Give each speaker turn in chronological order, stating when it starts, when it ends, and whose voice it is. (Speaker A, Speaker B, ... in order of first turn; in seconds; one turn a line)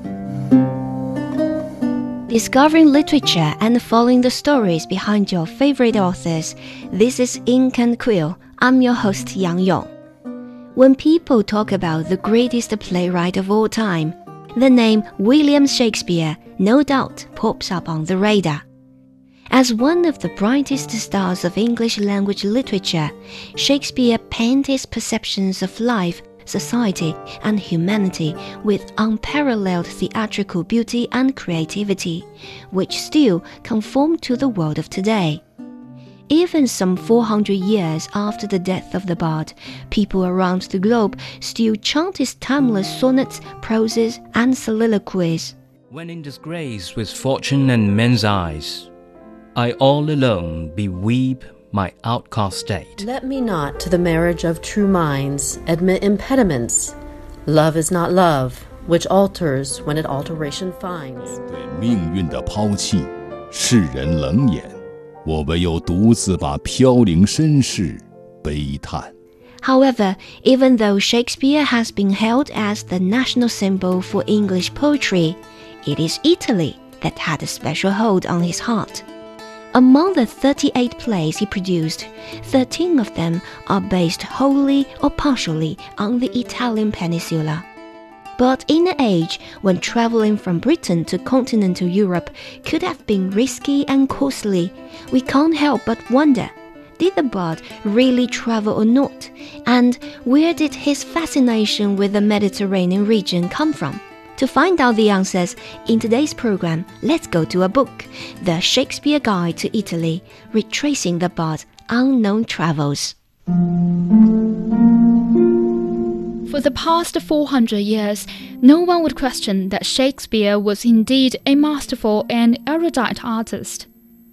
Speaker A: 2.3-9.9
Speaker A: 10.8-18.6
Speaker A: 19.5-35.4
Speaker A: 36.3-45.5
Speaker B: 45.9-48.9
Speaker B: 49.5-53.0
Speaker C: 53.0-61.4
Speaker D: 61.2-69.1
Speaker A: 69.6-79.0
Speaker A: 79.7-87.7
Speaker A: 88.4-113.2
Speaker E: 116.5-123.9